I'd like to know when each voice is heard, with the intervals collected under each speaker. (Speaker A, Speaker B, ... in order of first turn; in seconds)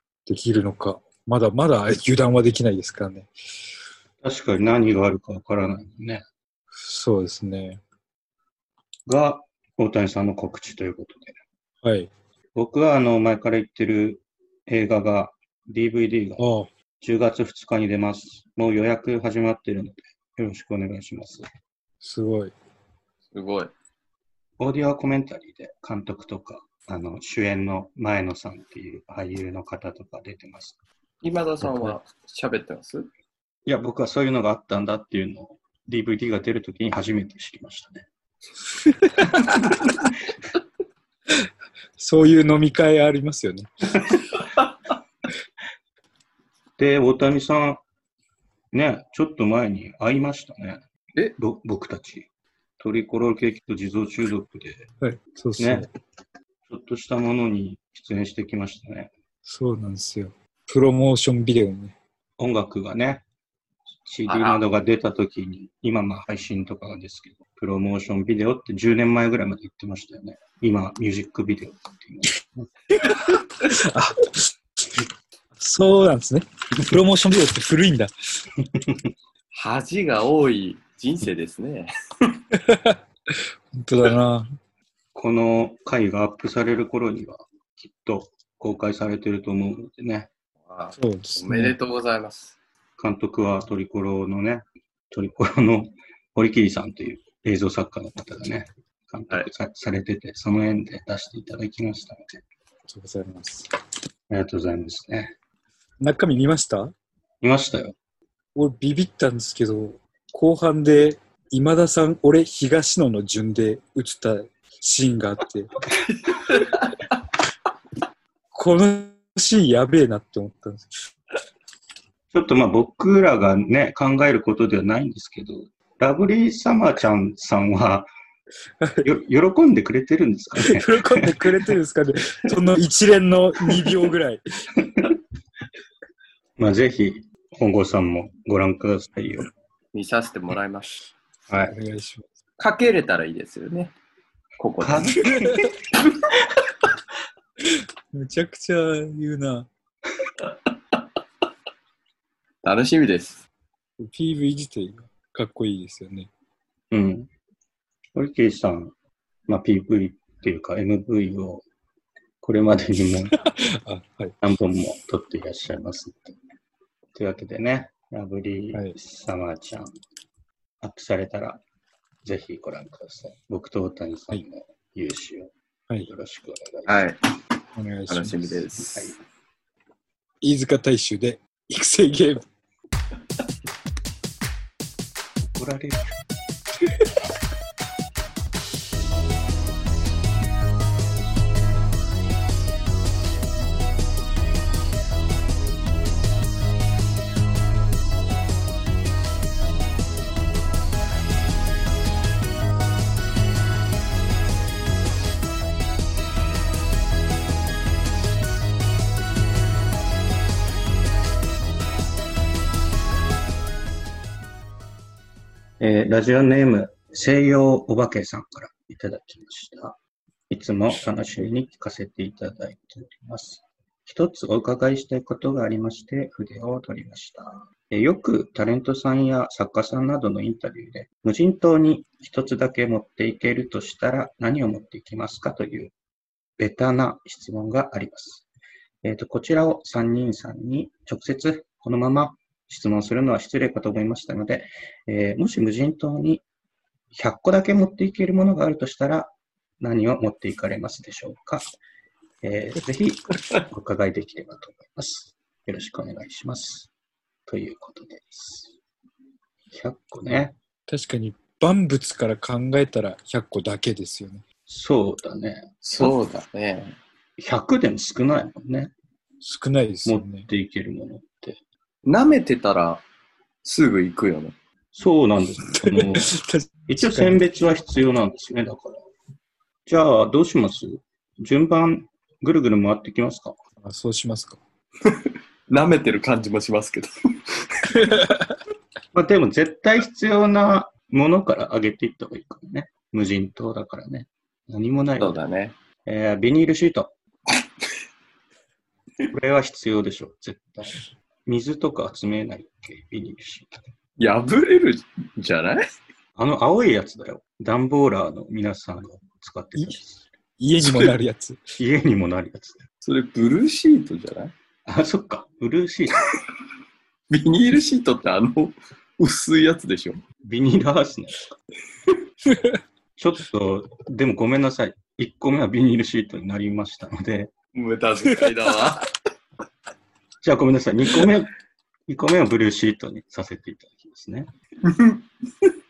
Speaker A: 0.3-3.3, 6.8-7.8, 11.8-12.1, 16.4-16.7, 22.0-22.5, 38.8-39.6, 42.0-44.2, 55.0-55.9, 59.5-62.0, 73.1-74.5, 75.6-78.1, 82.5-84.5, 91.0-91.8, 102.9-103.7, 106.0-106.9, 108.5-115.7, 118.5-121.1, 128.8-129.1, 130.6-134.4, 141.7-142.3, 145.2-145.7, 147.6-149.7, 154.0-156.3, 163.3-164.4, 177.8-178.7, 180.4-182.4, 260.9-264.4, 269.4-270.5, 275.7-277.4, 283.8-284.6, 287.9-288.6, 310.6-311.7, 322.4-322.8
Speaker B: 4.2-6.2, 9.1-11.4, 12.6-16.4, 17.0-21.4, 24.6-30.8, 33.7-38.1, 39.4-39.8, 46.8-47.8, 48.7-50.8, 51.4-52.3, 52.8-54.9, 55.6-55.9, 56.7-59.1, 62.4-63.2, 64.0-72.7, 78.7-79.0, 85.1-90.3, 93.0-102.4, 104.3-105.3, 107.4-108.0, 122.3-128.1, 129.0-131.5, 136.6-139.5, 141.5-141.7, 144.8-145.7, 156.9-157.3, 158.1-158.9, 159.5-161.7, 162.4-163.3, 164.4-166.4, 167.1-170.0, 170.8-171.6, 172.2-175.5, 176.1-177.1, 185.5-186.2, 215.8-220.0, 220.5-235.9, 236.6-238.5, 239.0-246.4, 247.1-251.7, 252.4-256.9, 257.5-258.7, 259.7-260.6, 264.7-266.1, 267.4-268.9, 270.1-271.6, 274.9-276.3, 276.9-279.0, 279.9-283.6, 289.1-295.4, 296.1-297.1, 299.3-303.8, 306.4-310.2, 311.8-312.9, 314.9-316.3, 320.4-321.6, 323.2-327.5, 330.4-331.5, 332.1-334.5
Speaker C: 23.3-23.7, 31.2-33.1, 64.3-64.6, 79.5-81.9, 90.7-92.6, 139.9-141.0, 142.6-143.9, 144.6-146.0, 152.6-153.4, 176.9-177.2, 178.1-179.2, 265.8-267.0, 272.0-273.0, 273.6-274.5, 285.1-288.1, 295.2-295.8, 304.2-305.9, 310.8-311.1, 313.0-314.5, 317.3-320.2, 327.7-329.1, 334.8-335.7